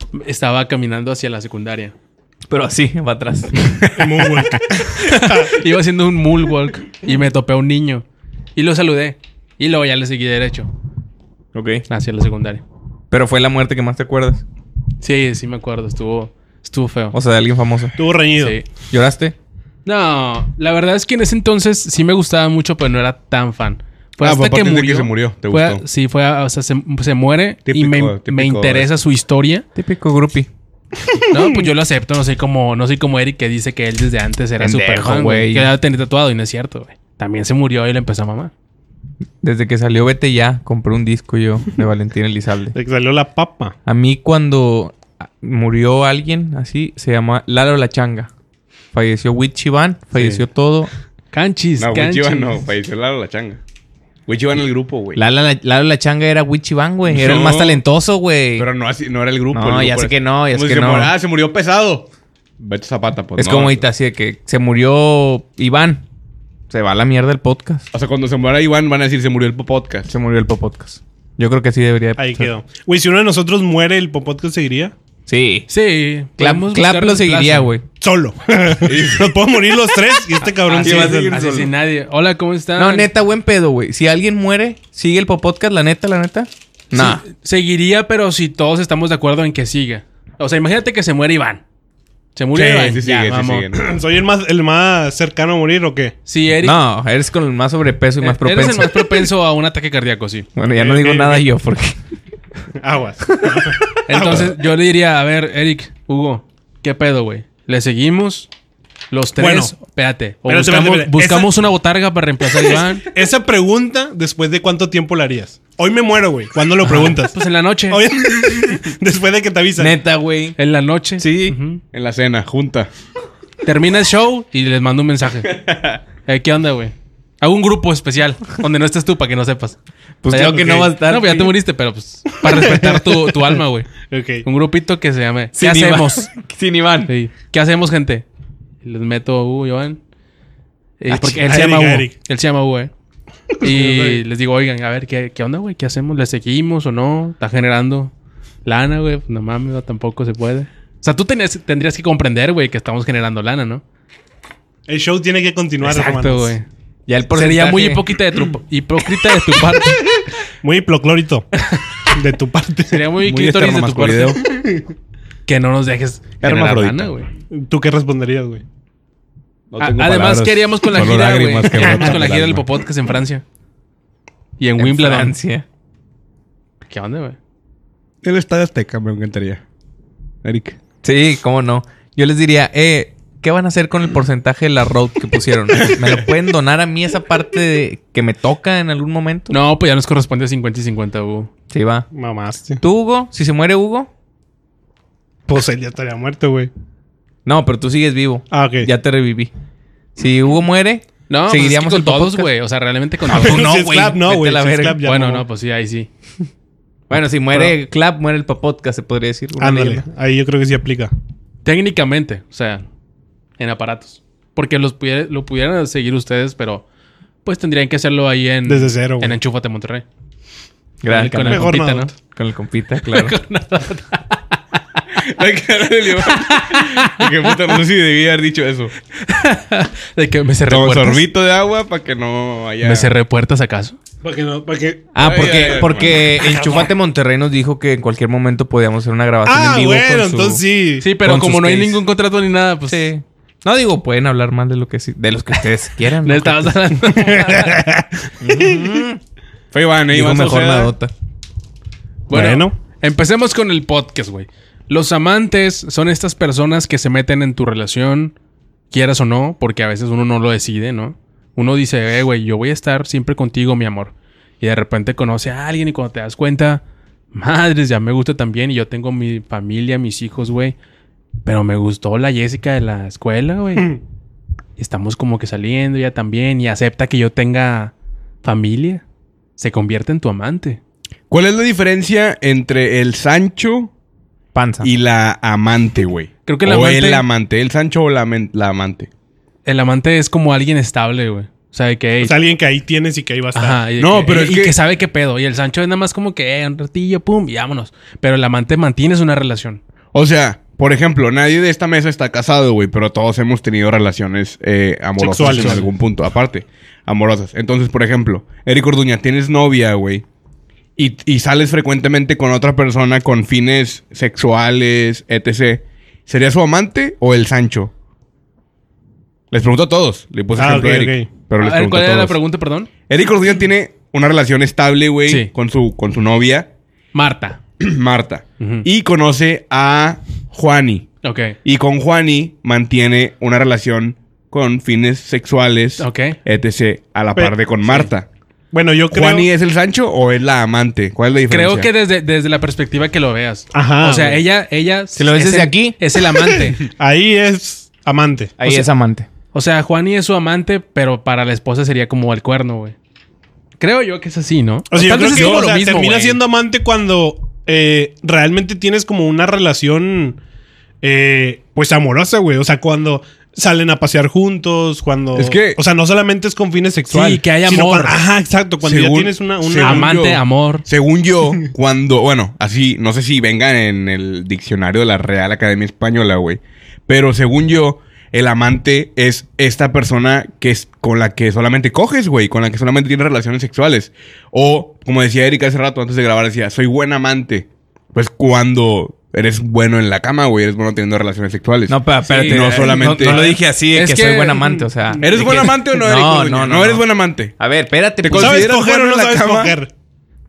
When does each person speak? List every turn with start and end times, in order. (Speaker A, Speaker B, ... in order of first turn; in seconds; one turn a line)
Speaker A: 0.1-1.9
Speaker B: 2.5-4.4
Speaker C: 4.0-5.5
Speaker A: 5.0-8.1
Speaker A: 8.6-10.7
Speaker B: 11.5-11.8
Speaker A: 11.9-12.6
Speaker B: 13.1-14.4
Speaker A: 15.0-17.2
Speaker B: 17.1-17.9
Speaker C: 18.0-18.6
Speaker A: 18.4-18.6
Speaker B: 18.9-19.4
Speaker A: 19.9-29.6
Speaker D: 24.2-25.8
Speaker D: 27.7-28.9
Speaker B: 29.8-30.5
Speaker C: 31.1-31.7
Speaker A: 31.3-38.5
Speaker B: 34.6-35.7
Speaker B: 39.4-42.8
Speaker C: 42.7-43.8
Speaker B: 43.9-48.3
Speaker B: 48.9-50.9
Speaker A: 50.2-50.4
Speaker A: 51.3-52.6
Speaker D: 51.8-53.6
Speaker D: 54.3-55.2
Speaker B: 55.1-58.7
Speaker D: 57.1-57.8
Speaker D: 58.6-62.1
Speaker B: 59.5-61.1
Speaker D: 62.6-63.8
Speaker B: 63.4-66.0
Speaker B: 66.7-67.8
Speaker D: 67.9-70.1
Speaker B: 70.1-72.5
Speaker C: 72.2-74.9
Speaker B: 75.3-75.7
Speaker A: 75.7-77.7
Speaker B: 76.4-77.8
Speaker C: 78.0-81.4
Speaker D: 78.8-79.4
Speaker A: 80.6-83.1
Speaker B: 80.7-81.7
Speaker B: 82.8-87.2
Speaker A: 86.9-91.6
Speaker A: 92.4-93.7
Speaker D: 92.5-93.9
Speaker C: 93.7-96.2
Speaker A: 96.3-96.8
Speaker B: 96.6-99.1
Speaker A: 98.2-100.5
Speaker B: 100.6-102.0
Speaker C: 100.8-101.5
Speaker C: 102.8-104.5
Speaker A: 104.1-108.5
Speaker A: 109.1-113.0
Speaker C: 109.4-109.7
Speaker C: 110.5-111.5
Speaker C: 113.1-117.4
Speaker A: 116.9-118.0
Speaker C: 117.9-120.0
Speaker B: 119.8-120.6
Speaker A: 120.6-121.8
Speaker B: 121.2-121.6
Speaker D: 121.9-122.9
Speaker A: 123.7-125.5
Speaker A: 126.2-129.8
Speaker B: 130.2-131.5
Speaker A: 130.3-136.3
Speaker C: 132.4-133.3
Speaker C: 134.1-134.4
Speaker B: 135.6-137.1
Speaker A: 137.1-138.2
Speaker A: 138.8-140.0
Speaker A: 141.0-142.9
Speaker C: 141.1-142.1
Speaker C: 143.6-144.2
Speaker A: 143.6-148.1
Speaker A: 148.7-153.8
Speaker C: 154.9-156.5
Speaker A: 155.8-156.7
Speaker B: 157.1-158.1
Speaker A: 157.3-160.0
Speaker C: 160.6-161.5
Speaker C: 162.1-163.1
Speaker A: 162.9-164.4
Speaker D: 163.2-164.4
Speaker C: 164.6-164.8
Speaker A: 165.5-167.3
Speaker D: 166.4-167.1
Speaker C: 167.5-168.6
Speaker D: 169.7-172.7
Speaker A: 169.8-173.4
Speaker A: 174.6-175.3
Speaker B: 174.8-175.7
Speaker A: 176.9-177.4
Speaker D: 178.2-179.6
Speaker D: 180.4-180.8
Speaker B: 181.0-189.6
Speaker A: 189.5-191.5
Speaker B: 191.7-192.1
Speaker C: 192.1-192.8
Speaker B: 192.8-194.1
Speaker C: 195.5-196.7
Speaker B: 197.5-199.5
Speaker C: 198.5-198.9
Speaker B: 200.2-202.5
Speaker A: 201.3-203.7
Speaker B: 203.2-205.0
Speaker C: 203.3-205.4
Speaker A: 205.0-206.1
Speaker B: 207.1-210.1
Speaker C: 209.6-211.1
Speaker A: 211.7-212.8
Speaker A: 213.6-216.8
Speaker A: 217.4-220.1
Speaker C: 218.7-219.4
Speaker B: 221.0-221.8
Speaker A: 221.1-222.1
Speaker C: 221.2-222.1
Speaker B: 222.3-223.4
Speaker A: 223.0-224.4
Speaker D: 225.2-228.9
Speaker A: 226.3-227.0
Speaker A: 229.2-231.2
Speaker D: 230.7-233.1
Speaker A: 232.8-234.0
Speaker C: 234.2-235.9
Speaker B: 235.2-240.6
Speaker D: 235.2-236.4
Speaker C: 239.4-241.1
Speaker A: 241.0-243.1
Speaker B: 241.2-242.0
Speaker B: 242.9-246.9
Speaker A: 246.2-247.8
Speaker C: 247.2-248.8
Speaker B: 248.4-249.2
Speaker D: 249.7-250.9
Speaker B: 250.1-251.1
Speaker A: 252.3-258.4
Speaker C: 252.3-252.7
Speaker A: 258.9-266.8
Speaker A: 267.3-270.8
Speaker A: 271.5-274.0
Speaker A: 274.8-279.0
Speaker A: 279.6-280.8
Speaker D: 281.3-283.9
Speaker B: 284.5-284.9
Speaker D: 284.8-289.1
Speaker A: 286.5-287.2
Speaker A: 289.7-292.3
Speaker C: 292.2-293.8
Speaker A: 293.5-299.8
Speaker D: 294.0-294.8
Speaker D: 300.1-310.2
Speaker C: 305.2-305.9
Speaker A: 305.4-305.9
Speaker D: 311.0-317.9
Speaker D: 319.5-322.4
Speaker C: 320.6-321.3
Speaker A: 321.6-322.9
Speaker D: 323.1-326.7
Speaker A: 327.1-327.6
Speaker D: 327.8-331.1
Speaker A: 328.6-328.9
Speaker A: 331.2-331.6
Speaker D: 331.6-338.3
Speaker A: 336.0-336.4
Speaker C: 338.7-339.5
Speaker D: 339.1-341.9
Speaker A: 341.5-346.8
Speaker C: 343.7-344.4
Speaker B: 345.2-346.0
Speaker C: 346.8-348.8
Speaker B: 348.6-349.3
Speaker A: 349.5-352.9
Speaker A: 353.8-356.4
Speaker C: 354.9-360.4
Speaker D: 355.0-355.7
Speaker C: 361.0-370.2
Speaker D: 365.3-365.8
Speaker A: 367.1-368.2
Speaker D: 368.8-393.5
Speaker A: 369.8-370.9
Speaker B: 391.9-397.1
Speaker A: 392.3-394.9
Speaker D: 395.2-397.5
Speaker B: 397.6-398.7
Speaker D: 398.2-399.8
Speaker C: 398.3-399.9